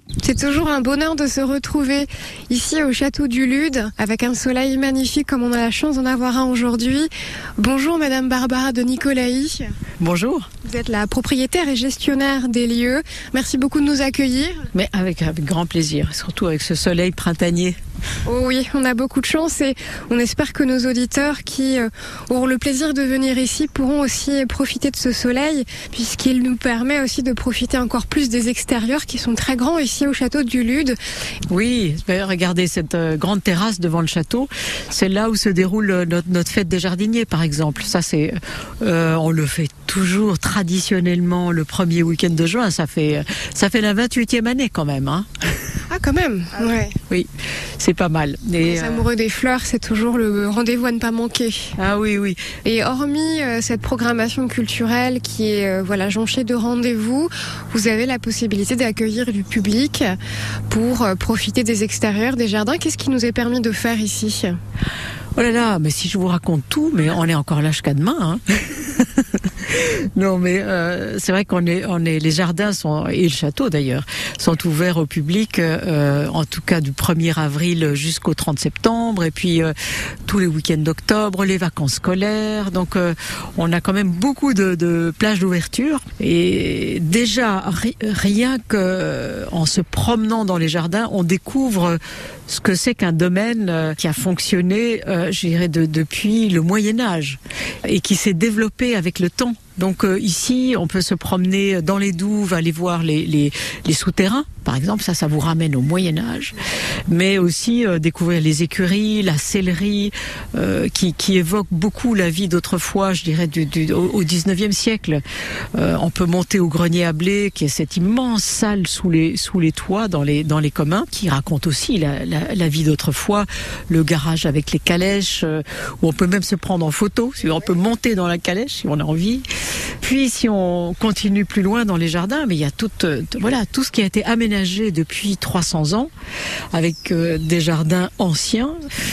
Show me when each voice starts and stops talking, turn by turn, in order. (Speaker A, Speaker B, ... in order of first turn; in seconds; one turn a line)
Speaker A: 0.2-9.7
Speaker B: 10.0-10.5
Speaker A: 10.6-14.7
Speaker B: 14.7-17.8
Speaker A: 18.2-31.0
Speaker B: 31.5-45.3
Speaker A: 45.9-47.0
Speaker B: 47.1-49.0
Speaker A: 48.6-51.7
Speaker B: 51.8-52.4
Speaker A: 52.6-60.1
Speaker A: 60.7-64.6
Speaker B: 65.4-79.7
Speaker B: 80.2-106.6
Speaker B: 107.1-115.2
Speaker B: 115.7-129.4
Speaker B: 130.0-136.1
Speaker B: 136.7-138.8